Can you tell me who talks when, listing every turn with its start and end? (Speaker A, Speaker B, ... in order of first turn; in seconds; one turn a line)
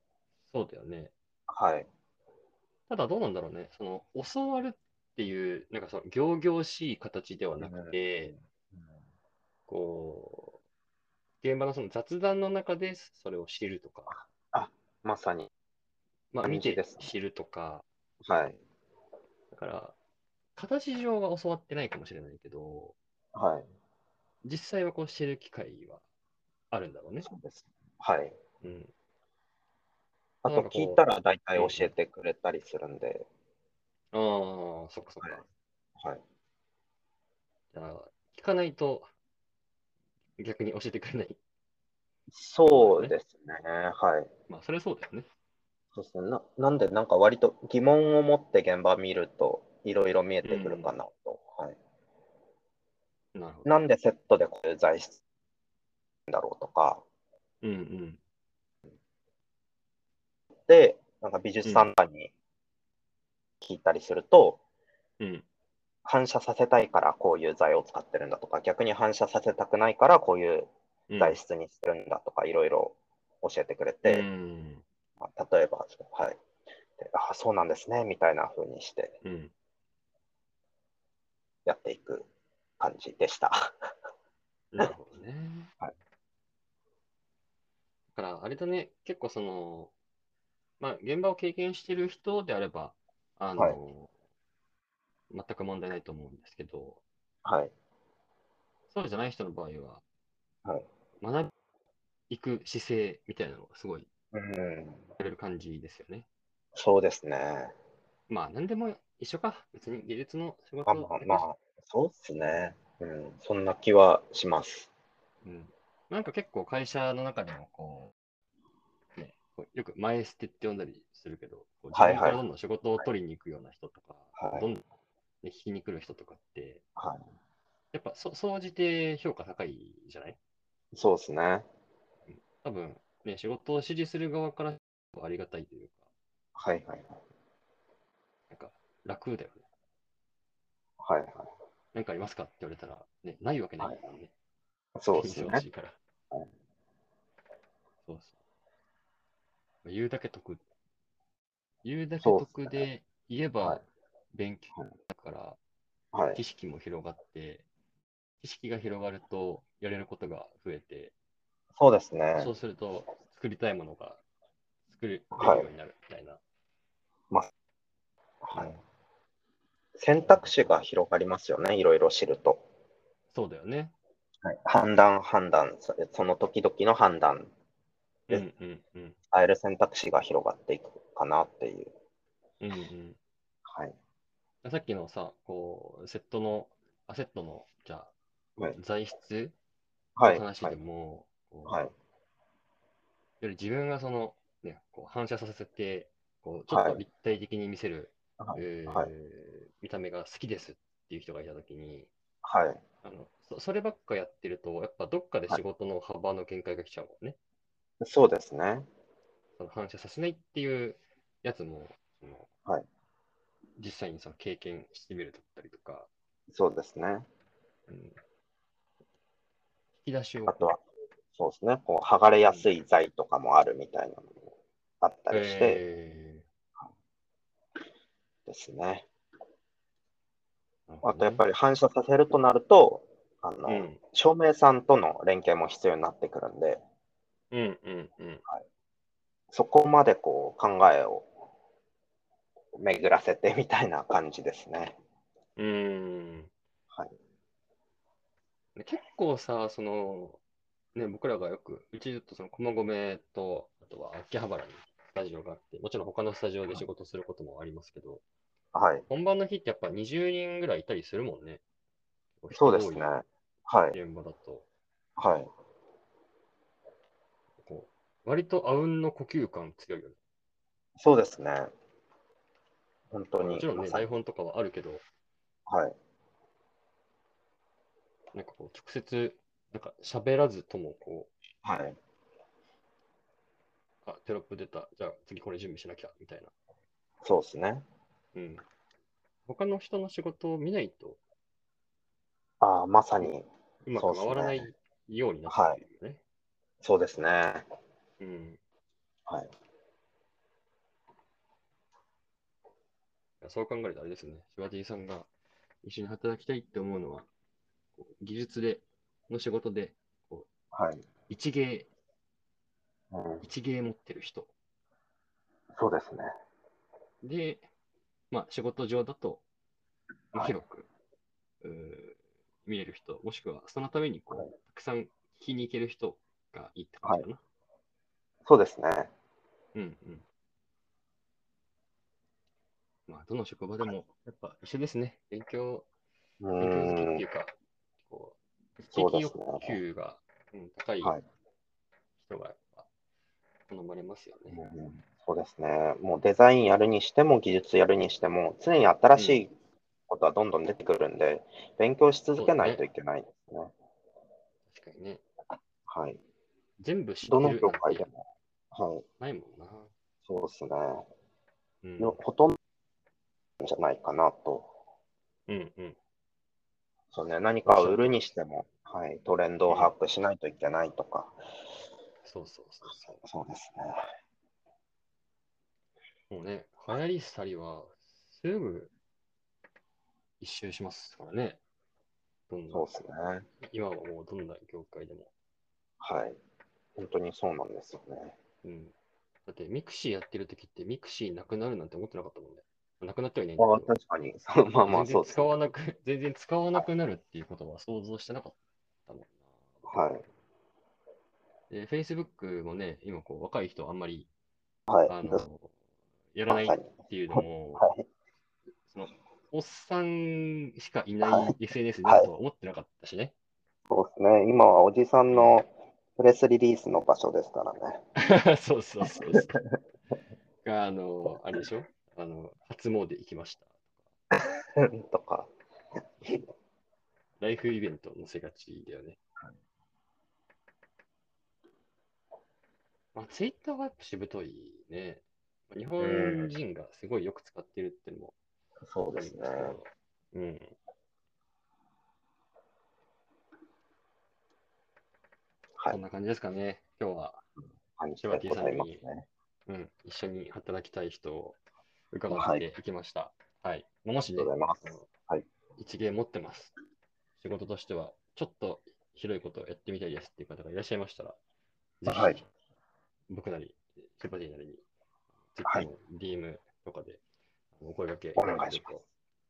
Speaker A: 0.5-1.1
Speaker B: 1.5-1.9
Speaker A: 2.9-8.3
Speaker B: 7.6-8.0
Speaker A: 9.7-10.6
Speaker A: 11.4-14.2
Speaker B: 14.1-15.5
Speaker A: 16.3-17.9
Speaker B: 16.4-17.1
Speaker B: 18.2-18.6
Speaker A: 19.5-20.0
Speaker A: 20.6-22.9
Speaker B: 23.3-23.7
Speaker A: 24.4-26.0
Speaker A: 26.7-27.3
Speaker B: 27.2-28.4
Speaker A: 28.6-28.9
Speaker B: 30.4-33.3
Speaker A: 30.5-31.0
Speaker A: 31.6-31.9
Speaker A: 34.1-35.5
Speaker A: 37.7-39.1
Speaker A: 40.4-41.4
Speaker B: 42.3-44.3
Speaker A: 42.7-43.1
Speaker A: 44.5-45.3
Speaker B: 46.0-51.8
Speaker A: 50.4-50.9
Speaker A: 53.4-53.7
Speaker B: 53.7-55.2
Speaker B: 56.3-57.0
Speaker A: 57.6-58.2
Speaker B: 60.7-62.3
Speaker A: 61.6-61.9
Speaker B: 63.6-64.6
Speaker A: 65.2-65.5
Speaker B: 66.0-74.3
Speaker A: 71.1-71.4
Speaker A: 74.0-74.8
Speaker B: 75.2-76.4
Speaker B: 77.0-79.2
Speaker A: 79.2-79.5
Speaker B: 81.7-82.3
Speaker B: 82.8-83.7
Speaker A: 84.7-85.7
Speaker A: 88.2-89.9
Speaker A: 90.8-94.1
Speaker A: 95.3-97.0
Speaker B: 97.5-97.7
Speaker A: 98.9-100.0
Speaker A: 101.2-101.5
Speaker A: 102.3-104.1
Speaker B: 104.3-105.0
Speaker A: 105.2-106.3
Speaker B: 106.8-107.7
Speaker A: 108.3-111.5
Speaker B: 110.9-114.9
Speaker A: 115.4-118.1
Speaker A: 119.2-124.8
Speaker B: 121.9-122.4
Speaker B: 124.4-124.7
Speaker A: 125.4-126.8
Speaker B: 127.0-127.2
Speaker A: 127.9-130.4
Speaker B: 130.9-131.7
Speaker A: 132.3-136.0
Speaker B: 136.6-137.2
Speaker A: 138.5-139.6
Speaker B: 141.0-141.5
Speaker A: 141.9-144.3
Speaker B: 145.0-145.7
Speaker A: 145.1-146.0
Speaker A: 148.1-148.3
Speaker A: 149.8-150.6
Speaker A: 151.8-155.6
Speaker B: 152.2-152.8
Speaker B: 156.1-156.4
Speaker A: 156.3-157.7
Speaker A: 158.4-161.1
Speaker B: 161.8-162.5
Speaker A: 162.3-164.2
Speaker A: 164.9-166.4
Speaker B: 165.4-165.7
Speaker B: 168.4-168.8
Speaker A: 168.5-168.8
Speaker B: 170.0-172.6
Speaker A: 170.3-170.6
Speaker A: 173.3-173.9
Speaker B: 174.4-177.5
Speaker A: 178.3-179.2
Speaker B: 179.3-181.9
Speaker A: 182.6-183.2
Speaker B: 183.7-183.9
Speaker A: 184.6-188.1
Speaker A: 188.7-189.6
Speaker B: 190.2-190.8
Speaker A: 190.2-191.8
Speaker B: 191.7-191.9
Speaker A: 193.4-202.1
Speaker B: 196.7-197.0
Speaker B: 198.4-199.1
Speaker B: 202.4-202.8
Speaker A: 203.0-207.4
Speaker B: 208.0-208.9
Speaker A: 209.6-212.5
Speaker A: 213.8-216.1
Speaker B: 216.5-217.3
Speaker A: 217.9-218.2
Speaker A: 220.0-220.7
Speaker B: 220.5-220.8
Speaker B: 221.3-224.4
Speaker A: 222.4-222.7
Speaker B: 225.0-225.8
Speaker A: 225.3-226.5
Speaker B: 228.5-229.1
Speaker A: 230.9-231.4
Speaker B: 231.0-236.8
Speaker A: 233.7-234.0
Speaker A: 237.5-238.4
Speaker B: 239.5-241.3
Speaker B: 242.8-245.0
Speaker A: 245.6-246.5
Speaker A: 248.8-250.4
Speaker A: 250.9-258.2
Speaker B: 258.7-259.1
Speaker A: 259.1-261.6
Speaker A: 262.4-263.1
Speaker B: 262.5-264.0
Speaker A: 263.9-264.7
Speaker B: 265.2-265.5
Speaker A: 267.6-270.2
Speaker B: 271.0-271.7
Speaker B: 273.1-274.1
Speaker A: 273.4-275.1
Speaker B: 275.7-275.9
Speaker A: 278.3-281.3
Speaker B: 281.6-282.0
Speaker A: 284.1-286.5
Speaker B: 287.2-287.9
Speaker A: 288.4-288.6
Speaker A: 289.5-291.2
Speaker B: 292.6-294.7
Speaker A: 293.9-296.2
Speaker B: 295.5-295.8
Speaker B: 296.8-297.6
Speaker A: 298.2-298.6
Speaker A: 303.4-305.3
Speaker A: 305.8-307.3
Speaker A: 308.0-310.5
Speaker B: 310.7-311.0
Speaker A: 311.3-311.9
Speaker B: 313.1-313.4
Speaker A: 313.4-314.5
Speaker B: 315.8-316.3
Speaker A: 317.2-317.7
Speaker A: 318.3-319.4
Speaker A: 320.3-320.9
Speaker A: 321.6-327.4
Speaker B: 328.5-329.1
Speaker A: 329.8-330.3
Speaker A: 333.1-335.9
Speaker B: 336.4-337.2
Speaker A: 336.6-337.5
Speaker A: 338.1-341.2
Speaker B: 338.9-339.8
Speaker A: 342.2-342.9
Speaker A: 343.7-344.6
Speaker B: 344.5-349.5
Speaker A: 349.1-349.5
Speaker B: 350.1-353.7
Speaker A: 352.4-352.8
Speaker A: 354.7-355.2
Speaker B: 355.9-356.2
Speaker A: 356.8-358.1
Speaker B: 357.3-358.2
Speaker B: 358.7-359.0
Speaker A: 359.2-359.9
Speaker B: 360.3-361.1
Speaker A: 361.8-362.2
Speaker B: 362.0-362.6
Speaker B: 363.6-364.7
Speaker A: 365.5-366.0
Speaker B: 367.1-371.4
Speaker A: 367.7-368.1
Speaker A: 372.2-373.2
Speaker B: 373.2-374.0
Speaker A: 376.3-378.9
Speaker A: 380.4-381.6
Speaker A: 382.5-382.9
Speaker B: 382.7-383.5
Speaker A: 383.6-385.3
Speaker B: 386.0-386.4
Speaker B: 387.0-388.4
Speaker A: 388.6-388.9
Speaker A: 389.5-393.9
Speaker B: 393.6-395.6
Speaker A: 394.9-400.1
Speaker B: 399.9-400.2
Speaker A: 401.7-404.3
Speaker B: 404.9-405.4
Speaker A: 405.1-405.7
Speaker A: 406.3-407.9
Speaker B: 406.5-408.0
Speaker A: 408.9-413.3
Speaker B: 411.2-412.3
Speaker B: 413.9-418.0
Speaker A: 415.3-415.6
Speaker A: 418.2-419.6
Speaker B: 419.0-419.6
Speaker A: 420.6-423.8
Speaker B: 424.4-425.5
Speaker B: 426.2-426.5
Speaker A: 427.4-429.2
Speaker A: 433.1-438.4
Speaker B: 436.0-436.5
Speaker B: 438.8-439.8
Speaker A: 439.1-440.8
Speaker A: 445.9-447.4
Speaker B: 448.0-449.3
Speaker A: 448.2-449.0
Speaker A: 449.7-451.6
Speaker A: 452.1-455.1
Speaker B: 452.3-452.6
Speaker B: 454.4-455.4
Speaker A: 455.8-456.8
Speaker A: 457.4-461.4
Speaker A: 462.0-462.5
Speaker B: 462.1-462.4
Speaker A: 463.3-464.8
Speaker A: 465.5-467.2
Speaker A: 467.8-469.0
Speaker B: 468.4-468.9